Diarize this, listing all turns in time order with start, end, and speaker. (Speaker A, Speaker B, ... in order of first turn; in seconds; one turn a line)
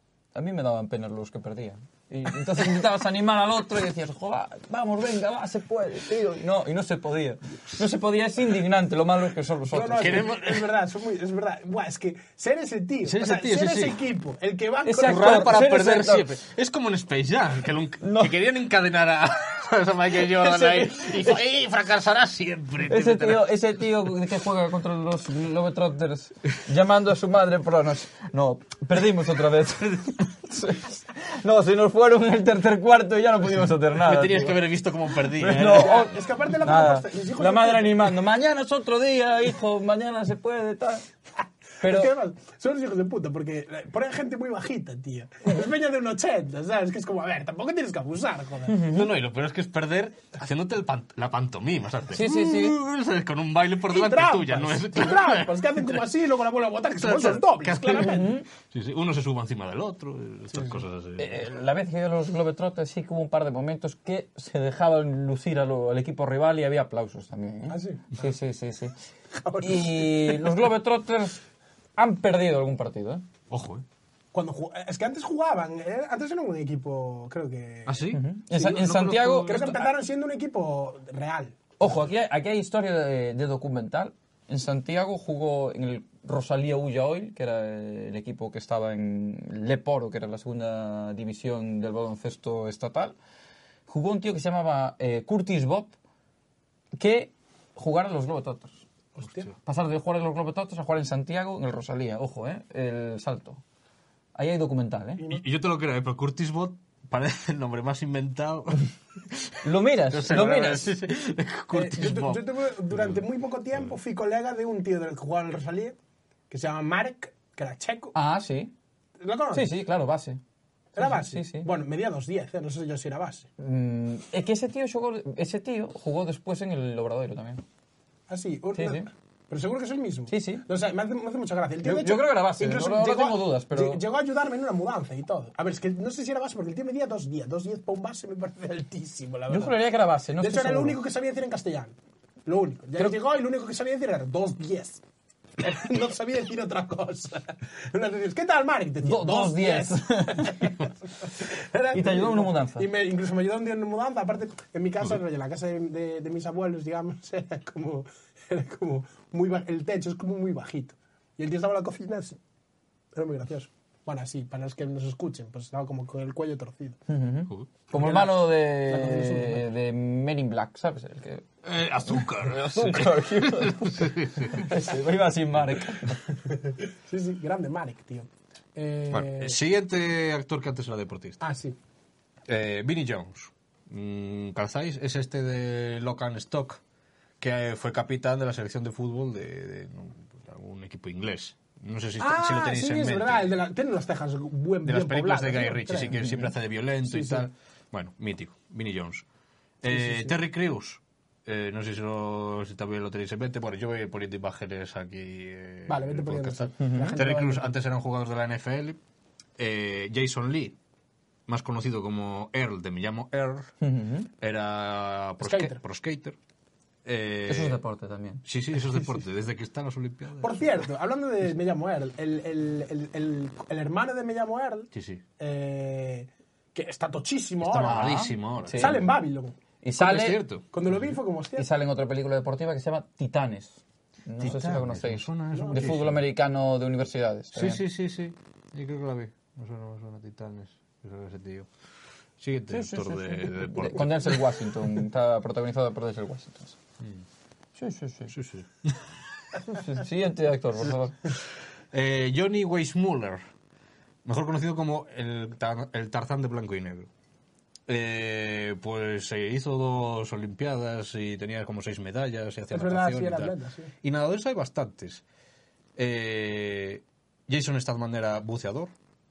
Speaker A: 0.3-10.2
Speaker B: 9.7-15.6
Speaker C: 10.0-10.7
Speaker C: 13.0-14.0
Speaker A: 14.8-16.2
Speaker C: 15.0-23.5
Speaker A: 18.0-18.3
Speaker A: 20.3-21.3
Speaker A: 22.9-34.6
Speaker C: 34.0-36.1
Speaker A: 35.3-41.0
Speaker B: 35.7-38.0
Speaker A: 41.8-42.1
Speaker B: 41.8-48.8
Speaker A: 48.7-49.1
Speaker C: 48.8-56.0
Speaker A: 52.1-52.8
Speaker B: 53.9-58.4
Speaker C: 57.0-61.3
Speaker A: 58.0-58.5
Speaker A: 61.2-68.9
Speaker B: 67.7-68.3
Speaker B: 69.4-70.5
Speaker A: 69.6-71.4
Speaker A: 72.0-73.2
Speaker C: 73.5-73.8
Speaker B: 74.3-78.2
Speaker C: 77.8-79.9
Speaker A: 78.1-79.8
Speaker B: 79.4-81.9
Speaker A: 81.8-93.1
Speaker A: 93.9-95.9
Speaker A: 96.9-98.8
Speaker B: 99.1-99.5
Speaker A: 99.6-103.6
Speaker A: 104.3-105.2
Speaker C: 105.2-109.6
Speaker A: 109.6-111.0
Speaker C: 110.1-113.2
Speaker B: 111.7-116.0
Speaker B: 116.5-118.2
Speaker A: 118.1-118.7
Speaker B: 119.2-119.7
Speaker A: 119.5-120.4
Speaker B: 121.0-123.5
Speaker A: 121.0-121.7
Speaker A: 123.6-127.6
Speaker B: 128.3-139.8
Speaker A: 128.8-129.1
Speaker A: 130.3-130.7
Speaker A: 131.8-134.0
Speaker A: 139.5-141.0
Speaker B: 140.4-141.9
Speaker B: 142.4-145.0
Speaker B: 145.6-162.4
Speaker A: 149.0-150.6
Speaker A: 151.9-152.9
Speaker B: 163.1-167.0
Speaker A: 167.1-171.4
Speaker B: 167.9-169.7
Speaker C: 171.6-174.7
Speaker A: 172.0-176.2
Speaker B: 176.5-179.6
Speaker C: 179.1-181.4
Speaker B: 181.4-181.8
Speaker C: 182.5-186.8
Speaker C: 187.4-193.5
Speaker B: 192.2-196.3
Speaker C: 194.8-199.2
Speaker B: 197.0-197.5
Speaker C: 199.8-209.0
Speaker B: 199.9-200.3
Speaker B: 205.9-207.7
Speaker A: 206.8-207.2
Speaker C: 209.6-210.8
Speaker C: 211.5-213.7
Speaker A: 213.8-214.3
Speaker C: 214.4-216.4
Speaker B: 215.4-215.8
Speaker C: 217.0-217.8
Speaker A: 217.4-218.4
Speaker C: 218.4-220.7
Speaker B: 220.4-228.2
Speaker C: 224.9-225.2
Speaker C: 227.6-229.1
Speaker A: 227.7-229.0
Speaker B: 228.7-229.5
Speaker A: 229.8-230.4
Speaker C: 230.0-230.6
Speaker B: 230.7-231.7
Speaker A: 231.6-237.8
Speaker C: 234.4-236.2
Speaker B: 235.5-235.8
Speaker C: 237.5-241.7
Speaker C: 242.4-244.5
Speaker A: 242.7-246.8
Speaker A: 247.8-248.3
Speaker C: 248.3-249.0
Speaker A: 249.7-251.3
Speaker C: 251.9-253.4
Speaker C: 254.2-257.1
Speaker C: 257.9-265.2
Speaker B: 262.7-263.9
Speaker C: 265.9-268.9